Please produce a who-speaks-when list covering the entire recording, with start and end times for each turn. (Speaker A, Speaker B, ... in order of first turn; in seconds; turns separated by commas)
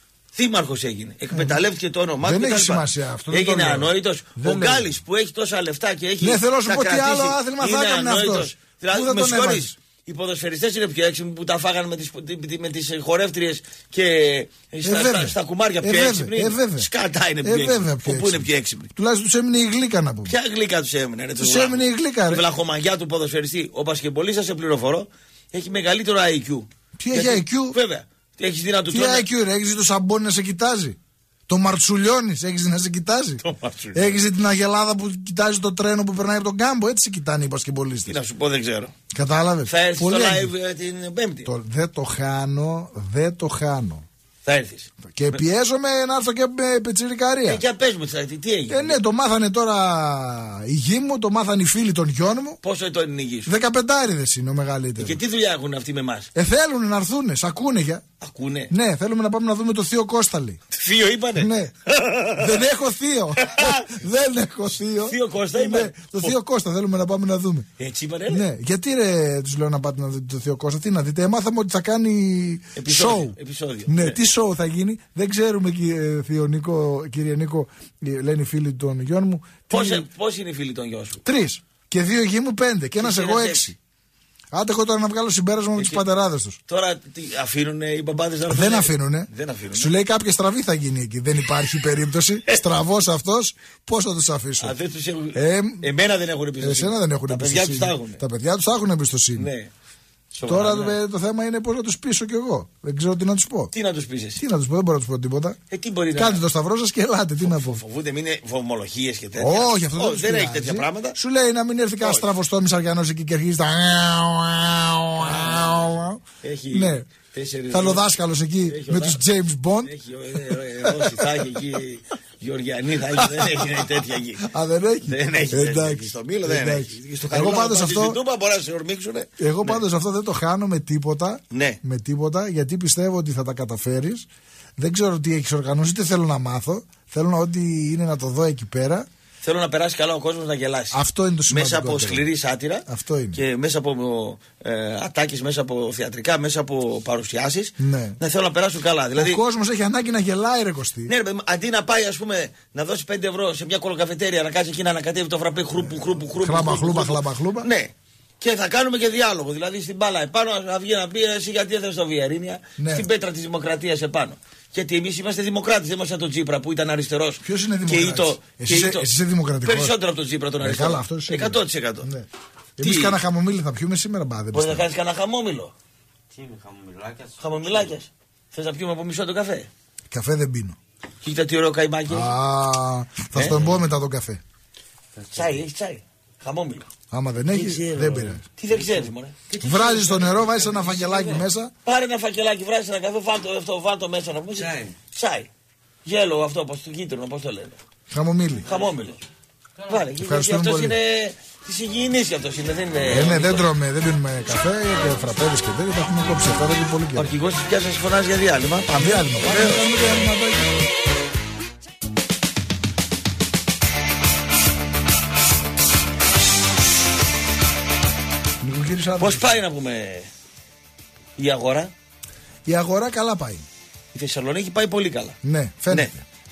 Speaker A: 0.3-18.9, Speaker B: 1.3-1.6, Speaker B: 2.2-4.9, Speaker B: 6.2-9.8, Speaker B: 14.8-16.9, Speaker B: 17.4-20.3, Speaker A: 20.3-29.3, Speaker B: 21.4-22.4, Speaker B: 27.0-27.8, Speaker B: 28.9-31.0, Speaker B: 31.5-33.4, Speaker A: 33.4-34.2, Speaker B: 33.9-38.2, Speaker A: 38.1-38.9, Speaker B: 39.1-40.5, Speaker A: 39.7-41.5, Speaker B: 41.5-44.1, Speaker A: 44.5-45.4, Speaker B: 45.1-47.6, Speaker A: 47.5-49.0, Speaker B: 48.7-52.6, Speaker A: 52.6-53.5, Speaker B: 53.5-55.2, Speaker A: 55.0-56.3, Speaker B: 56.4-58.0, Speaker A: 58.2-58.7, Speaker B: 58.7-60.6, Speaker A: 60.7-62.5, Speaker B: 61.4-61.7, Speaker B: 62.4-67.7, Speaker A: 63.4-63.9, Speaker A: 65.0-66.3, Speaker A: 67.8-68.4, Speaker B: 68.3-73.4, Speaker A: 72.8-74.2, Speaker B: 73.9-80.1, Speaker A: 79.7-81.2, Speaker B: 81.2-83.8, Speaker A: 83.0-83.7, Speaker B: 84.5-86.6, Speaker A: 86.7-89.9, Speaker B: 88.5-94.8, Speaker A: 94.6-98.2, Speaker B: 95.3-95.8, Speaker B: 96.6-99.5, Speaker A: 99.4-99.7, Speaker A: 100.3-101.0, Speaker B: 100.5-103.7, Speaker A: 103.7-104.4, Speaker B: 104.4-105.6, Speaker A: 105.7-106.4, Speaker B: 106.2-107.8, Speaker A: 107.4-111.2, Speaker B: 109.4-117.1, Speaker A: 112.0-112.3, Speaker A: 115.2-115.8, Speaker A: 116.4-118.0, Speaker B: 117.7-119.9, Speaker A: 118.7-119.2, Speaker A: 119.8-124.5, Speaker B: 120.5-121.4, Speaker B: 123.2-123.9, Speaker B: 124.4-128.2, Speaker A: 125.1-129.8, Speaker B: 129.4-134.3, Speaker A: 131.5-131.8, Speaker B: 134.8-139.1, Speaker A: 139.4-141.0, Speaker B: 140.9-142.3, Speaker A: 141.5-149.4, Speaker B: 142.9-143.4, Speaker B: 147.8-148.2, Speaker B: 149.2-151.1, Speaker A: 151.1-169.1, Speaker B: 156.4-157.7, Speaker B: 162.8-163.1, Speaker B: 167.4-170.0, Speaker A: 169.7-172.1, Speaker B: 170.6-172.3, Speaker B: 172.8-174.9, Speaker A: 172.8-173.2, Speaker A: 174.5-175.7, Speaker C: 176.3-177.9, Speaker A: 177.4-179.7, Speaker B: 180.1-180.8, Speaker A: 181.2-182.3, Speaker B: 182.1-184.4, Speaker A: 183.3-183.8, Speaker C: 185.2-185.6, Speaker A: 185.3-186.9, Speaker B: 187.1-188.4, Speaker A: 187.5-195.5, Speaker C: 189.5-191.2, Speaker B: 189.6-191.7, Speaker C: 194.6-194.9, Speaker A: 196.1-197.8, Speaker B: 198.1-198.7, Speaker A: 198.7-199.2, Speaker A: 199.9-203.7, Speaker B: 200.2-201.0, Speaker B: 203.1-207.3, Speaker A: 207.2-209.9, Speaker B: 209.0-210.8, Speaker B: 218.6-219.6, Speaker A: 219.2-220.3, Speaker A: 221.4-221.9, Speaker B: 222.7-223.7, Speaker A: 224.1-225.4, Speaker B: 225.4-226.2